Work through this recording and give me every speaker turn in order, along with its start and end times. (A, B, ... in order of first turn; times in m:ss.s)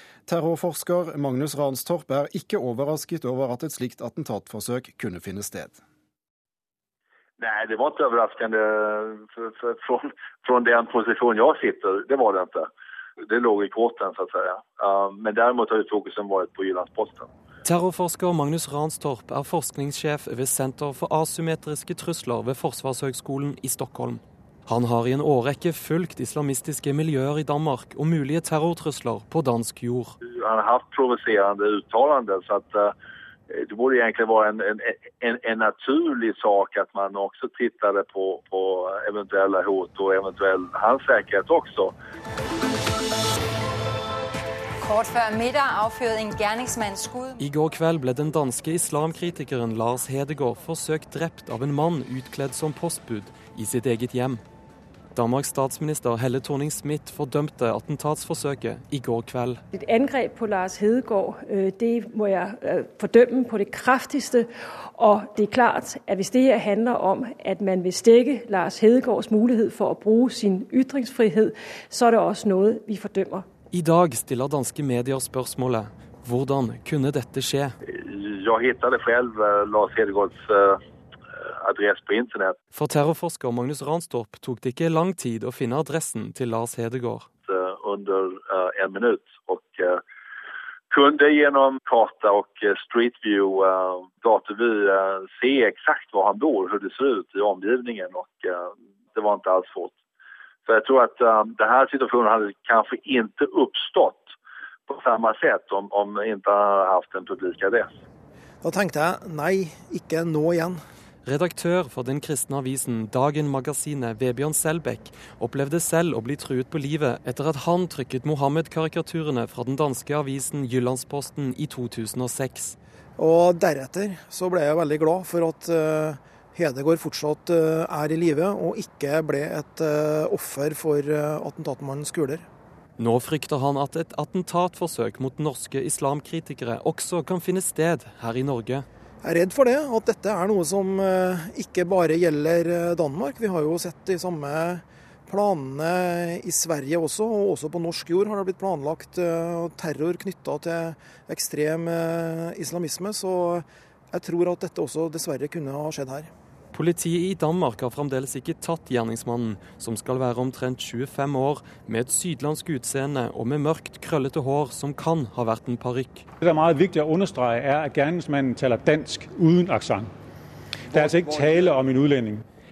0:00.3-0:05.8 A
0:07.4-0:17.3 B
0:17.6-0:30.1 C
0:30.3-0:32.9 B
0:33.5-0:41.9 B
0:44.8-0:47.4 D
0:47.4-0:54.4 C
0:55.2-0:59.6 C
0:59.7-1:13.5 E
1:13.7-1:17.7 C
1:17.9-1:20.8 B
1:21.4-1:22.6 B
1:22.7-1:27.3 C
1:27.5-1:30.0 B
1:30.9-1:40.0 B
1:40.7-1:44.3 B
1:44.9-1:47.9 B
1:48.6-1:50.8 F
1:51.2-2:02.8 C
2:03.2-2:12.4 F
2:13.0-2:18.9 C
2:19.2-2:36.3 F
2:36.7-2:46.3 C
2:46.4-2:50.1 G
2:50.9-2:52.4 G